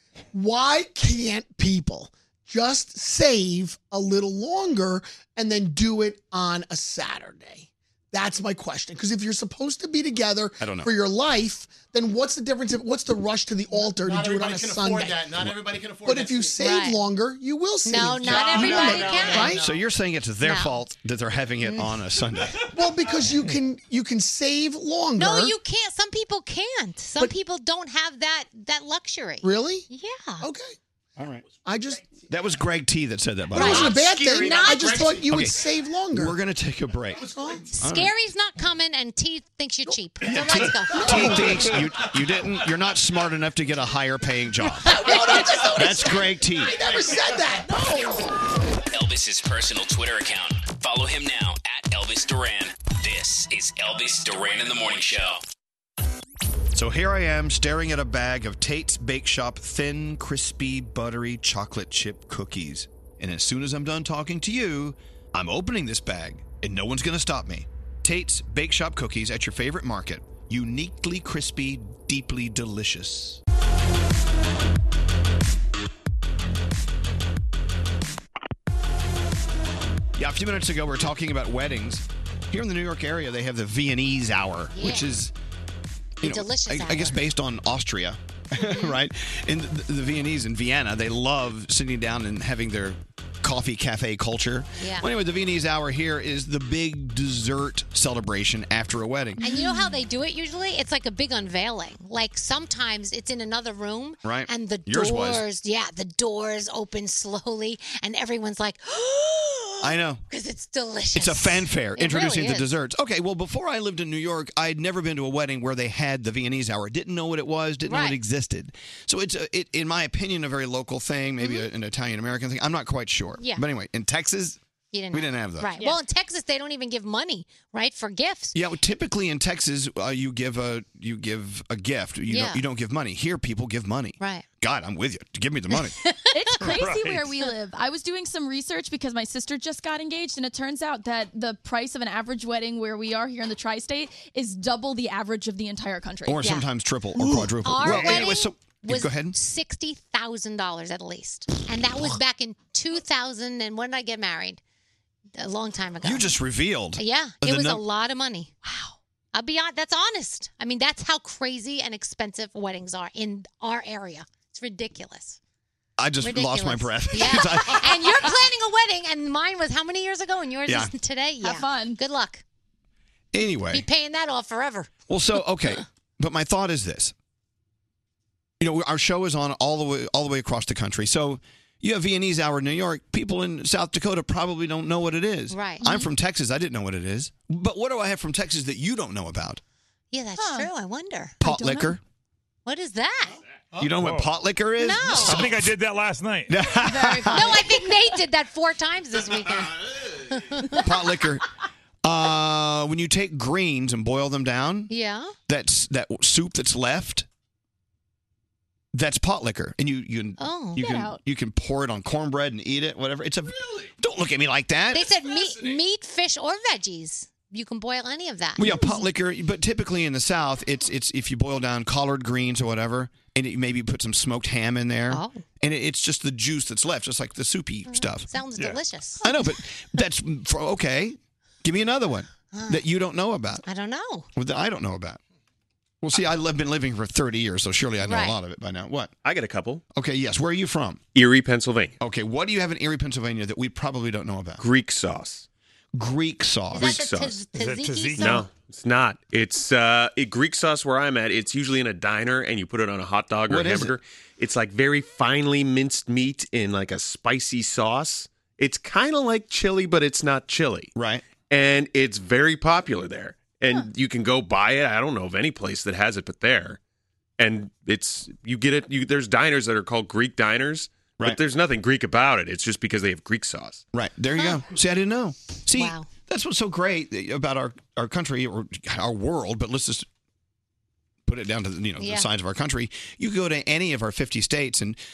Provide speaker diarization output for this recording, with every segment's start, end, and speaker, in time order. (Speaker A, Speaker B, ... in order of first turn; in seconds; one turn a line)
Speaker A: 0.3-15.3
Speaker B: 10.6-10.9
Speaker C: 13.9-16.7
Speaker A: 16.0-19.6
Speaker D: 16.6-17.0
Speaker D: 17.8-19.6
Speaker C: 18.1-19.8
Speaker B: 19.3-22.6
Speaker D: 20.4-20.8
Speaker D: 21.6-22.0
Speaker A: 22.7-25.5
Speaker D: 25.2-30.5
Speaker A: 29.4-29.9
Speaker A: 30.4-30.7
Speaker B: 31.2-31.4
Speaker A: 31.6-32.1
Speaker B: 32.3-34.0
Speaker A: 33.5-36.4
Speaker D: 33.5-35.2
Speaker C: 33.6-35.5
Speaker B: 35.2-37.3
Speaker C: 37.1-37.7
Speaker A: 37.4-37.6
Speaker D: 37.7-41.7
Speaker B: 37.8-38.1
Speaker B: 40.2-44.9
Speaker A: 41.0-41.6
Speaker A: 44.9-48.3
Speaker C: 45.0-45.4
Speaker B: 45.6-46.8
Speaker C: 46.7-47.3
Speaker E: 48.9-55.4
Speaker B: 56.7-73.4
Speaker B: 80.2-85.3
Speaker D: 84.7-85.1
Speaker D: 86.2-87.2
Speaker B: 86.2-99.4
Speaker D: 88.6-89.0
Speaker D: 94.8-95.1
Speaker F: 99.4-99.9
Speaker D: 99.4-112.7
Speaker B: 104.2-105.4
Speaker B: 109.8-110.2
Speaker B: 111.1-124.6
Speaker D: 117.8-118.2
Speaker D: 121.4-121.7
Speaker D: 123.4-123.6
Speaker D: 124.9-128.5
Speaker B: 125.1-125.7
Speaker B: 128.5-136.0
Speaker D: 132.3-132.6
Speaker D: 134.2-134.4
Speaker D: 136.0-136.3
Speaker F: 136.3-146.4
Speaker G: 136.6-137.3
Speaker B: 146.3-149.3
Speaker D: 147.6-154.6
Speaker D: 155.4-156.4
Speaker B: 156.0-157.8
Speaker D: 157.0-158.5
Speaker D: 159.3-165.4
Speaker B: 166.0-168.2
Speaker D: 166.2-172.4
Speaker B: 170.7-170.9
Speaker F: 171.4-172.0
Speaker B: 173.3-173.8
Speaker D: 173.7-174.9
Speaker B: 175.1-177.1
Speaker B: 178.6-189.6
Speaker D: 185.5-185.9
Speaker F: 185.8-186.1
Speaker D: 190.1-191.4
Speaker F: 190.4-190.7
Speaker B: 191.4-192.0
Speaker F: 191.4-191.9
Speaker D: 192.7-193.4
Speaker B: 193.8-195.7
Speaker G: 193.9-194.3
Speaker D: 194.8-195.5
Speaker G: 195.1-196.6
Speaker B: 196.5-197.7
Speaker D: 196.8-200.8
Speaker B: 200.8-201.4
Speaker B: 202.0-204.9
Speaker D: 204.9-205.3
Speaker B: 205.5-207.2
Speaker B: 208.9-215.1
Speaker D: 210.4-211.0
Speaker F: 210.8-211.2
Speaker D: 214.9-218.9
Speaker B: 218.6-228.3
Speaker D: 225.1-225.4
Speaker D: 227.9-229.3
Speaker B: 229.2-233.6
Speaker D: 232.5-232.8
Speaker D: 233.6-234.3
Speaker B: 234.3-235.2
Speaker B: 236.0-239.1
Speaker D: 238.0-238.4
Speaker H: 239.2-239.8
Speaker B: 239.9-241.0
Speaker H: 241.1-241.9
Speaker B: 242.0-244.6
Speaker H: 244.6-245.4
Speaker B: 245.9-247.0
Speaker D: 246.7-248.5
Speaker H: 246.7-247.4
Speaker G: 247.5-248.5
Speaker H: 248.2-260.9
Speaker B: 253.5-253.9
Speaker B: 260.9-261.2
Speaker H: 261.5-266.8
Speaker H: 267.4-273.8
Speaker B: 273.9-280.1
Speaker D: 275.7-276.1
Speaker B: 281.2-285.0
Speaker D: 282.0-282.3